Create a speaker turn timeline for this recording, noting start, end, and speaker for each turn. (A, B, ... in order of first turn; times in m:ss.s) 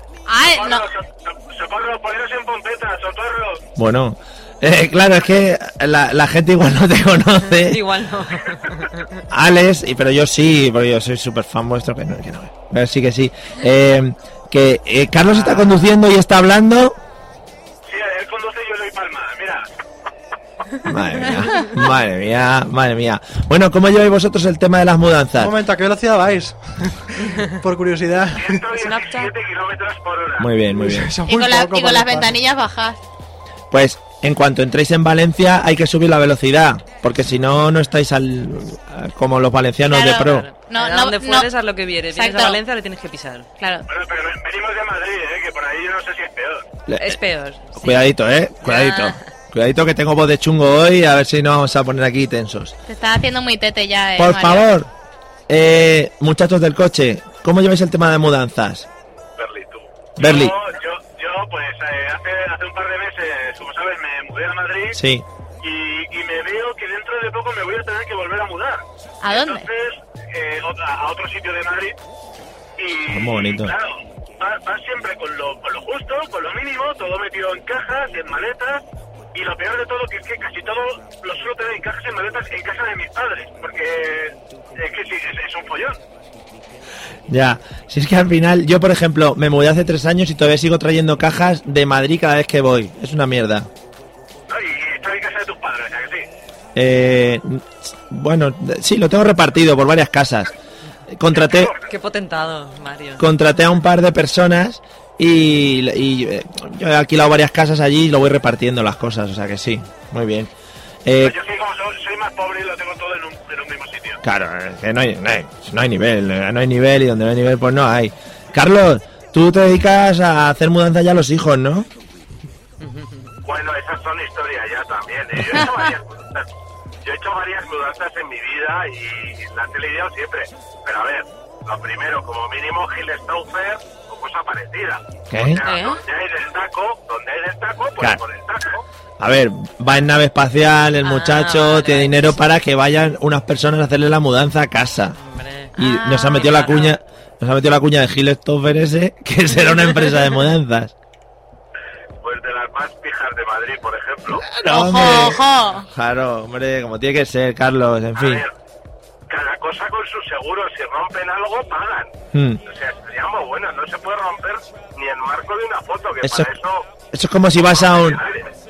0:00.3-0:00.9 A
0:00.6-0:03.6 B
0:03.8-0:07.8 C
0:07.6-0:09.2 D
0:09.3-0:17.0 C
0:17.8-0:19.7 B
0:20.8-0:25.5 C
0:25.4-0:28.7 E
0:28.4-0:30.6 B
0:28.7-0:29.3 D
0:30.4-0:31.1 C
0:30.7-0:32.3 E
0:31.3-0:33.0 A
0:33.7-0:40.5 C
0:39.9-0:41.5 A
0:40.2-0:43.5 D
0:42.1-0:42.6 A
0:43.6-0:43.9 A
0:43.9-0:46.6 B
0:46.9-0:47.2 C
0:47.0-0:49.2 D
0:47.8-0:52.7 C
0:52.9-0:54.7 A
0:54.2-0:54.9 C
0:55.5-0:58.9 C
0:59.4-1:05.0 B
1:00.2-1:00.6 C
1:04.9-1:05.2 C
1:05.6-1:12.0 B
1:09.2-1:09.7 A
1:12.8-1:26.0 B
1:13.1-1:13.8 C
1:27.3-1:33.7 C
1:34.5-1:36.2 B
1:36.7-1:40.5 C
1:41.1-1:41.7 C
1:41.3-1:41.8 B
1:41.9-1:43.2 D
1:43.2-1:50.5 C
1:51.0-1:51.4 C
1:51.2-1:54.2 B
1:54.2-2:01.9 C
2:02.8-2:03.3 D
2:03.4-2:06.5 B
2:07.0-2:18.8 B
2:15.3-2:15.6 C
2:15.6-2:16.0 D
2:19.2-2:25.2 C
2:21.0-2:22.4 D
2:25.2-2:25.7 D
2:25.8-2:26.5 A
2:25.8-2:30.9 C
2:26.3-2:27.0 D
2:32.2-2:34.4 B
2:34.3-2:38.4 C
2:34.6-2:35.9 A
2:38.2-2:38.5 B
2:39.3-2:46.8 B
2:42.3-2:42.6 C
2:46.2-2:46.5 C
2:47.1-2:48.2 C
2:47.6-2:48.5 B